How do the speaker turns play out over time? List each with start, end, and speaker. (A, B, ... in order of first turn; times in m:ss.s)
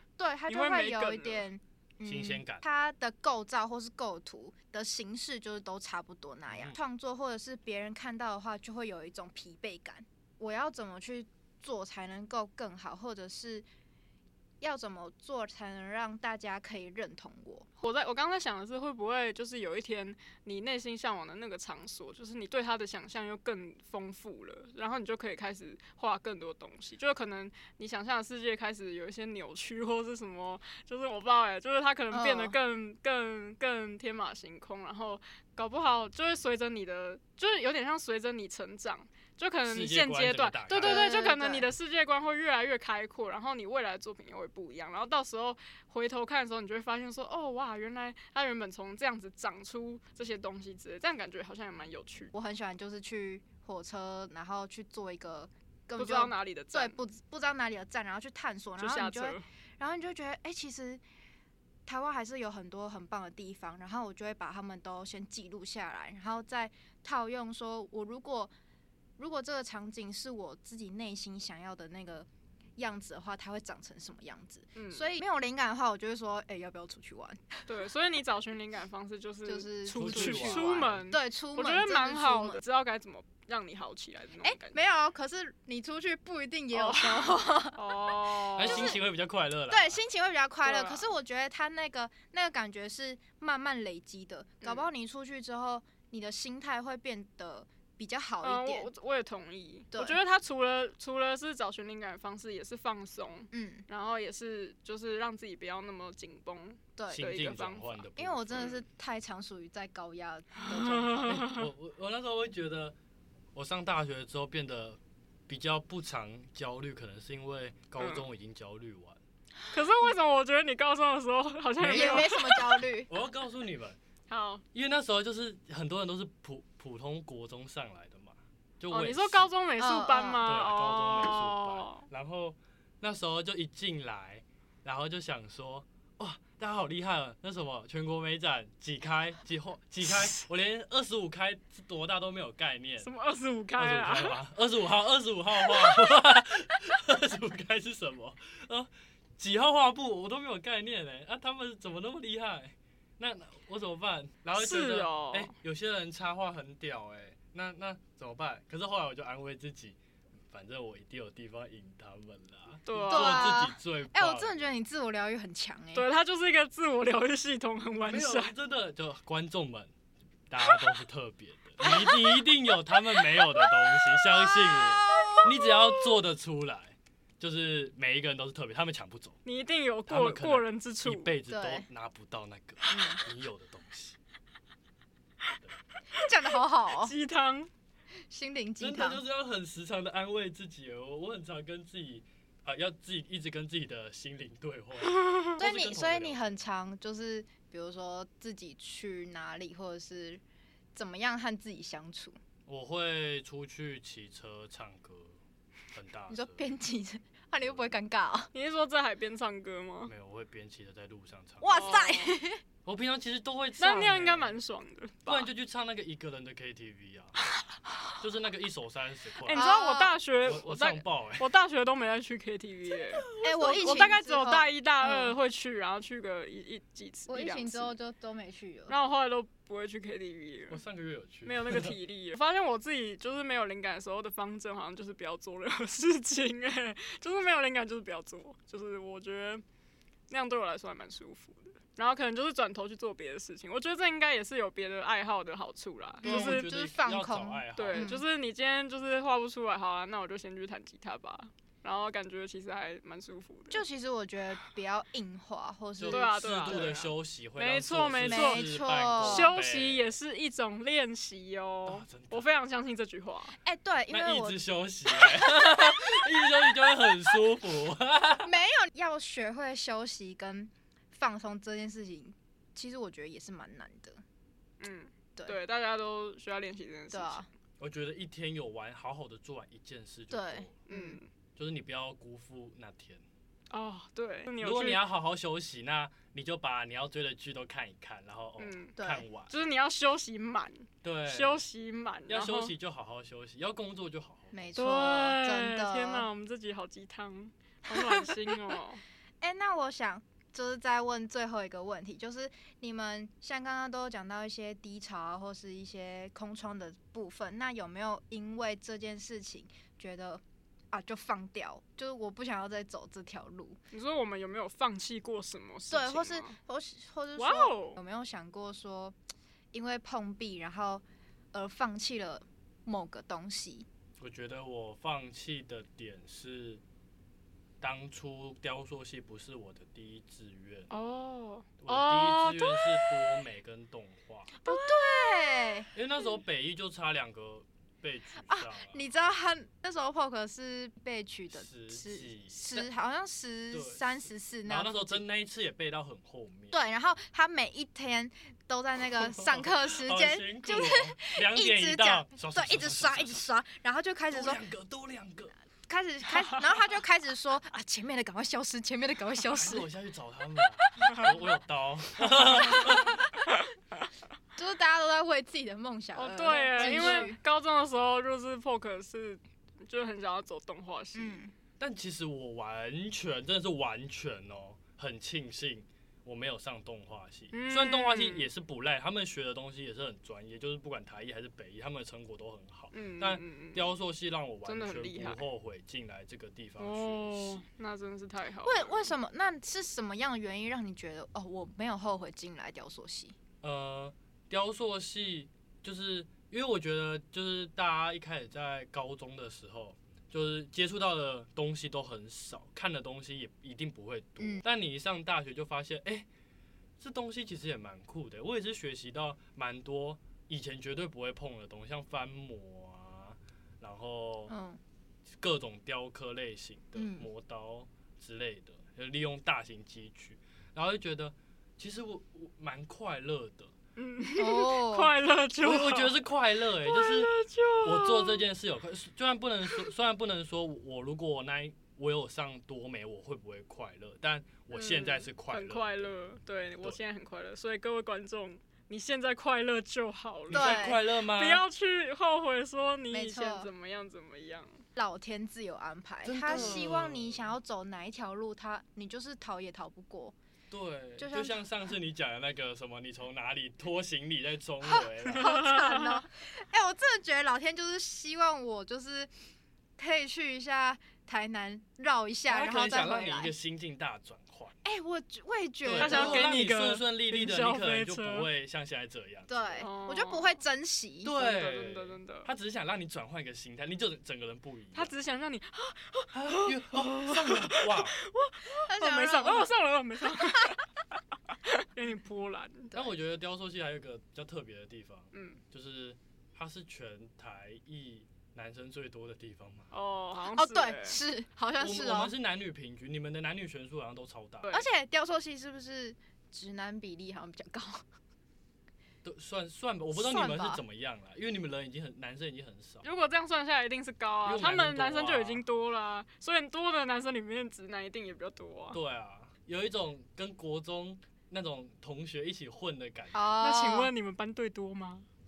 0:00.2-0:13.6 A
0:00.5-0:01.4 B
0:02.0-0:02.6 C
0:06.5-0:06.8 C
0:14.6-0:17.7 A
0:17.8-0:52.3 B
0:32.1-0:32.5 A
0:39.7-0:41.1 C
0:40.7-0:41.7 A
0:52.3-1:01.0 A
0:56.0-0:57.0 B
0:58.8-0:59.4 B
1:01.8-1:08.5 A
1:09.2-1:17.7 A
1:14.7-1:15.1 B
1:17.7-1:24.8 B
1:19.4-1:22.6 A
1:19.9-1:21.0 C
1:24.4-1:27.8 A
1:26.7-1:28.9 B
1:28.6-1:30.0 C
1:28.6-1:29.0 A
1:29.7-1:38.9 A
1:30.6-1:31.1 B
1:34.6-1:34.9 B
1:38.4-1:48.8 B
1:39.9-1:40.2 A
1:43.5-1:43.8 A
1:47.0-1:47.3 A
1:47.1-1:48.7 C
1:48.2-1:51.5 A
1:50.6-1:51.6 B
1:51.4-1:53.0 C
1:53.5-1:59.2 C
1:59.7-2:02.8 B
2:01.8-2:02.4 C
2:01.9-2:03.1 A
2:03.1-2:04.0 C
2:04.3-2:04.6 B
2:04.7-2:09.5 C
2:08.9-2:12.1 B
2:09.8-2:10.4 A
2:10.4-2:23.1 C
2:23.0-2:24.4 B
2:23.8-2:40.0 C
2:34.6-2:35.5 B
2:40.5-2:44.7 C
2:42.8-2:43.6 B
2:43.1-2:46.0 A
2:45.9-2:48.5 B
2:48.0-2:49.9 C
2:50.5-2:59.4 C
2:51.8-2:52.1 B
2:55.2-2:55.4 B
2:59.4-3:01.3 B
3:00.1-3:04.2 C
3:01.5-3:01.8 A
3:02.9-3:03.2 A
3:06.1-3:07.1 A
3:06.9-3:07.7 B
3:08.3-3:09.2 A
3:08.8-3:16.6 C
3:15.2-3:15.6 B
3:15.6-3:20.4 A
3:20.9-3:22.4 A
3:22.7-3:25.4 C
3:25.9-3:26.7 C
3:26.3-3:28.5 A
3:27.6-3:28.0 C
3:28.5-3:30.1 B
3:30.0-3:32.0 C
3:31.6-3:32.6 A
3:31.7-3:32.4 B
3:32.8-3:34.6 C
3:33.8-3:35.5 B
3:35.2-3:37.3 C
3:38.2-3:39.6 C
3:39.4-3:47.9 B
3:39.5-3:40.2 A
3:40.4-3:41.5 C
3:42.9-3:43.9 C
3:43.4-3:45.3 A
3:47.3-3:48.9 A
3:48.9-3:50.8 B
3:50.7-3:52.0 C
3:51.4-3:59.6 B
4:00.3-4:06.7 B
4:06.2-4:08.2 A
4:06.2-4:08.1 C
4:07.8-4:13.8 B
4:13.7-4:17.0 A
4:16.0-4:20.1 C
4:16.1-4:23.6 B
4:18.2-4:19.6 A
4:21.8-4:22.4 C
4:23.6-4:24.6 A
4:24.1-4:28.6 C
4:25.2-4:25.7 A
4:28.4-4:34.2 A
4:34.8-4:37.4 B
4:37.1-4:37.5 A
4:37.8-4:40.8 C
4:40.3-4:41.2 A
4:40.9-4:41.3 B
4:41.6-4:43.2 C
4:43.7-4:45.0 B
4:44.6-4:49.6 C
4:48.6-4:48.9 B
4:49.0-4:49.3 A
4:49.5-4:52.7 B
4:51.0-4:51.6 C
4:52.3-4:55.0 C
4:54.5-4:56.2 A
4:54.8-4:59.0 B
4:57.9-4:58.8 A
4:59.4-5:13.8 A
5:13.9-5:16.6 B
5:15.9-5:19.2 A
5:17.4-5:18.0 B
5:19.7-5:23.9 A
5:24.2-5:26.8 C
5:27.8-5:30.9 C
5:30.9-5:33.2 B
5:31.8-5:34.5 C
5:34.6-5:35.9 A
5:34.7-5:35.8 B
5:35.9-5:39.0 C
5:38.4-5:45.2 A
5:41.5-5:42.9 C
5:43.7-5:46.8 C
5:46.7-5:54.6 A
5:49.2-5:53.4 C
5:54.3-5:55.5 C
5:55.9-5:59.9 A
5:59.5-6:03.2 C
6:01.0-6:01.3 A
6:02.2-6:03.5 A
6:04.6-6:07.4 A
6:06.1-6:11.4 B
6:06.8-6:07.2 C
6:11.1-6:11.5 A
6:11.8-6:27.6 C
6:17.5-6:18.5 B
6:22.9-6:23.9 B
6:24.6-6:25.4 B
6:26.8-6:29.1 B
6:28.6-6:33.4 A
6:33.6-6:46.3 C
6:47.0-6:54.5 C
6:54.5-6:54.8 A
6:55.4-7:03.7 C
6:56.9-6:57.3 A
7:04.0-7:06.1 B
7:04.4-7:05.1 A
7:05.6-7:17.0 C
7:06.8-7:08.4 B
7:14.7-7:24.8 B
7:20.5-7:21.6 C
7:20.5-7:21.0 A
7:23.1-7:23.7 A
7:25.0-7:30.3 A
7:26.2-7:27.5 C
7:26.5-7:26.8 B
7:30.7-7:35.7 C
7:31.2-7:31.6 A
7:34.8-7:39.3 A
7:35.4-7:36.2 B
7:40.0-7:43.5 A
7:42.5-7:44.8 C
7:44.8-7:46.5 A
7:45.8-7:49.9 C
7:46.0-7:48.5 B
7:49.5-7:51.3 A
7:49.8-7:50.5 B
7:51.2-7:55.1 C
7:51.4-7:52.5 B
7:54.9-8:00.8 B
7:56.3-7:58.2 C
7:58.9-7:59.7 A
8:00.4-8:00.7 A
8:01.6-8:02.9 B
8:02.9-8:09.9 C
8:05.3-8:05.6 B
8:09.9-8:11.2 B
8:10.5-8:12.3 A
8:11.8-8:14.7 C
8:14.7-8:18.0 A
8:19.2-8:23.0 C
8:20.1-8:20.8 A
8:23.0-8:29.0 B
8:24.4-8:25.6 C
8:28.9-8:33.4 C
8:33.3-8:34.1 A
8:33.6-8:35.2 B